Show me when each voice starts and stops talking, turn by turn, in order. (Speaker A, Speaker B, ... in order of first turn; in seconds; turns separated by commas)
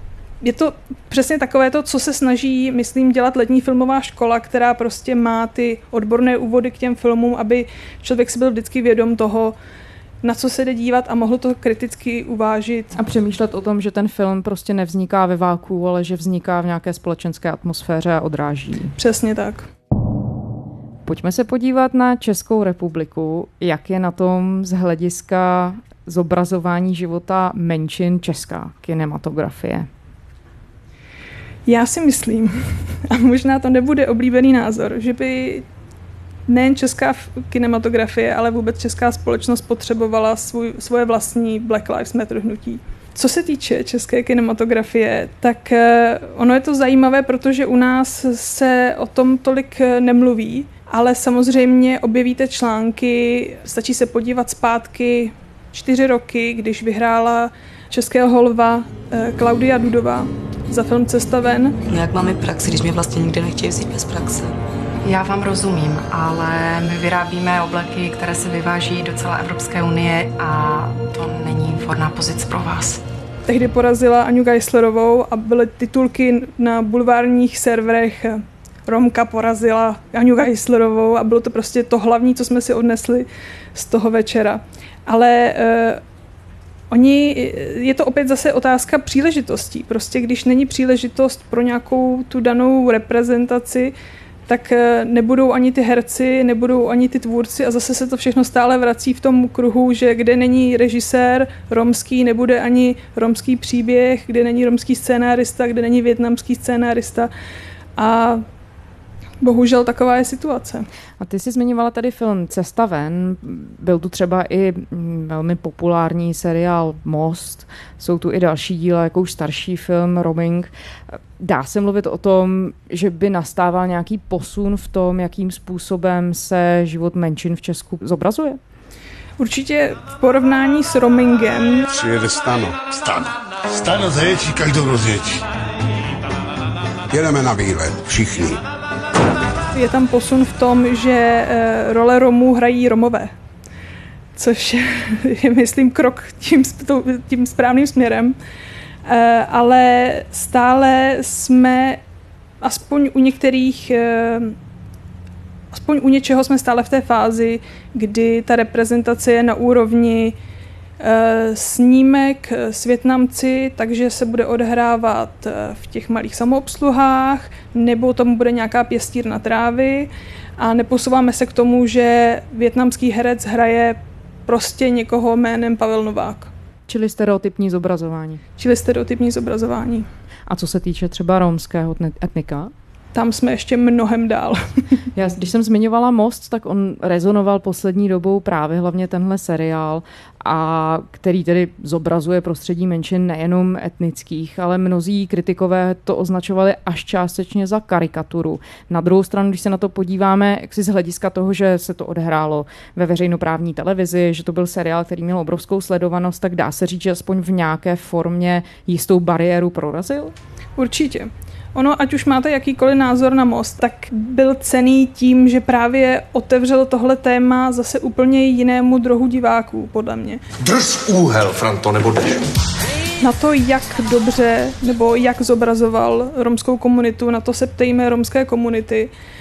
Speaker A: 0.4-9.6, Speaker A: 10.2-13.0, Speaker B: 12.9-18.9, Speaker A: 18.9-19.7, Speaker B: 21.1-29.9, Speaker A: 31.7-32.5, Speaker A: 33.1-35.6, Speaker A: 36.5-61.8, Speaker C: 61.9-64.5, Speaker D: 65.0-73.0, Speaker A: 73.5-86.0, Speaker A: 86.9-93.9, Speaker A: 94.5-107.3, Speaker A: 108.0-108.4, Speaker A: 109.4-110.8, Speaker B: 111.2-120.7, Speaker B: 121.4-128.6, Speaker A: 129.4-131.9, Speaker E: 131.9-135.4, Speaker E: 137.1-138.6, Speaker A: 139.7-143.3, Speaker A: 144.3-148.3, Speaker A: 149.1-152.0, Speaker A: 152.6-154.5, Speaker A: 155.7-160.3, Speaker A: 161.0-176.5, Speaker B: 176.9-178.4, Speaker A: 178.6-180.1, Speaker B: 180.5-182.7, Speaker A: 183.1-184.8, Speaker B: 185.1-210.3, Speaker A: 210.8-220.4, Speaker E: 220.6-222.4, Speaker A: 223.2-229.1